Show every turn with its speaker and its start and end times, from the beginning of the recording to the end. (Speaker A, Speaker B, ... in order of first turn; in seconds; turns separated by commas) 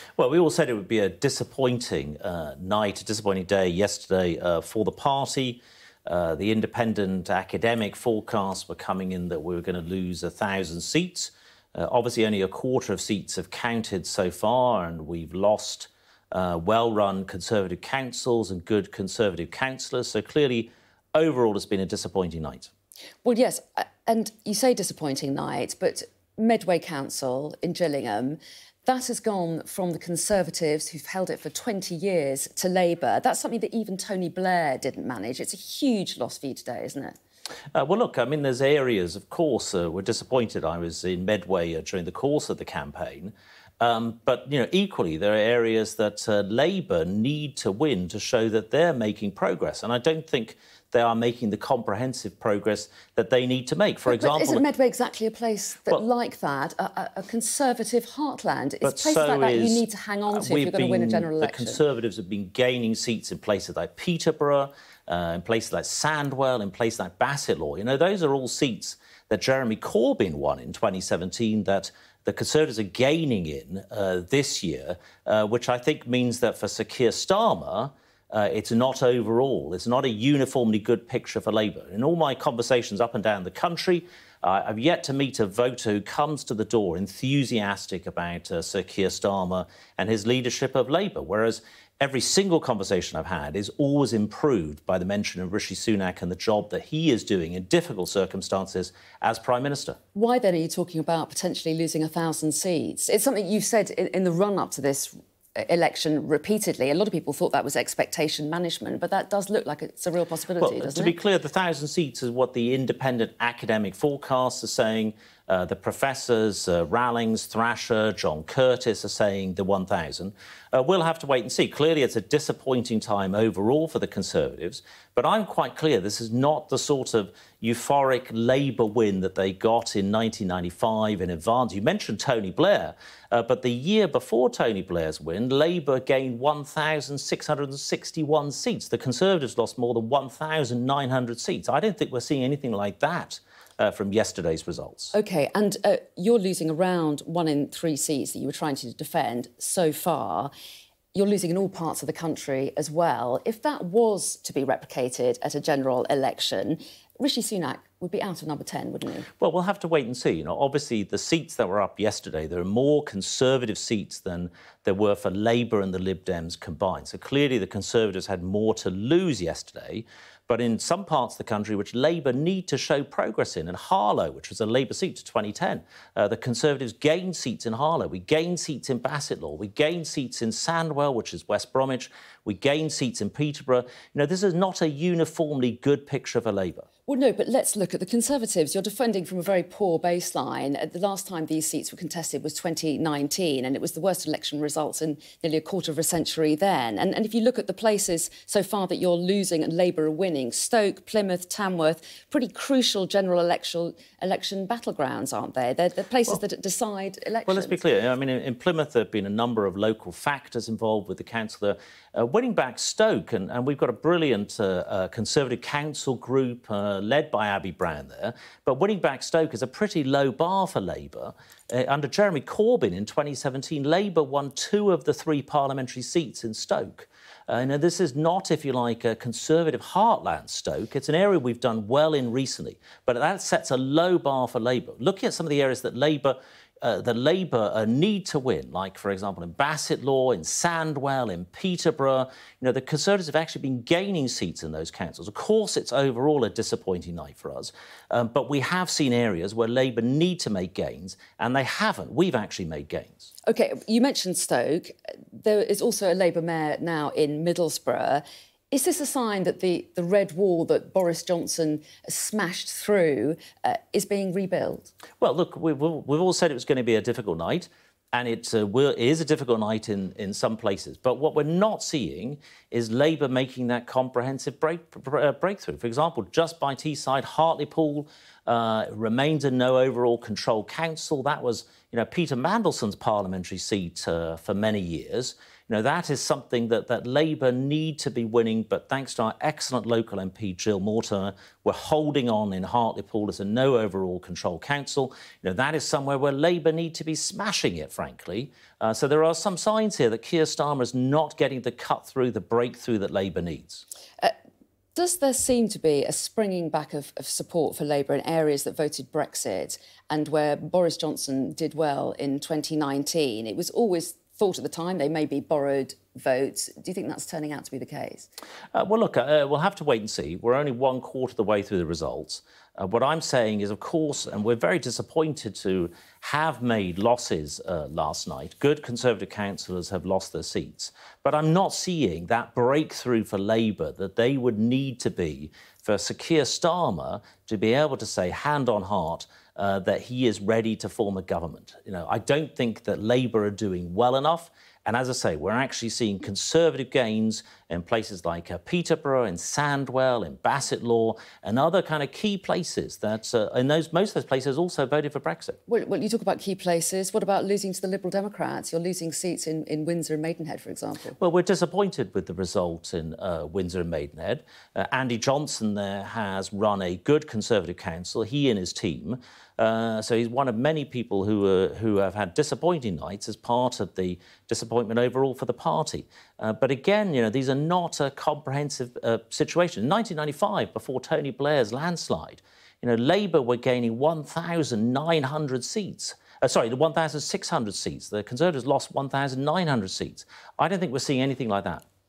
Speaker A: 0.2-22.7, Speaker B: 23.2-37.2, Speaker A: 37.7-54.6, Speaker B: 54.1-61.8, Speaker A: 58.8-100.0, Speaker B: 100.1-111.2, Speaker A: 110.6-145.1, Speaker B: 145.1-150.5, Speaker B: 151.1-159.3, Speaker A: 159.4-186.9, Speaker B: 187.1-207.8, Speaker A: 207.4-253.3, Speaker B: 253.4-264.9, Speaker A: 265.2-303.8, Speaker B: 304.9-318.3, Speaker A: 318.7-355.6, Speaker B: 355.7-361.2, Speaker A: 361.2-391.8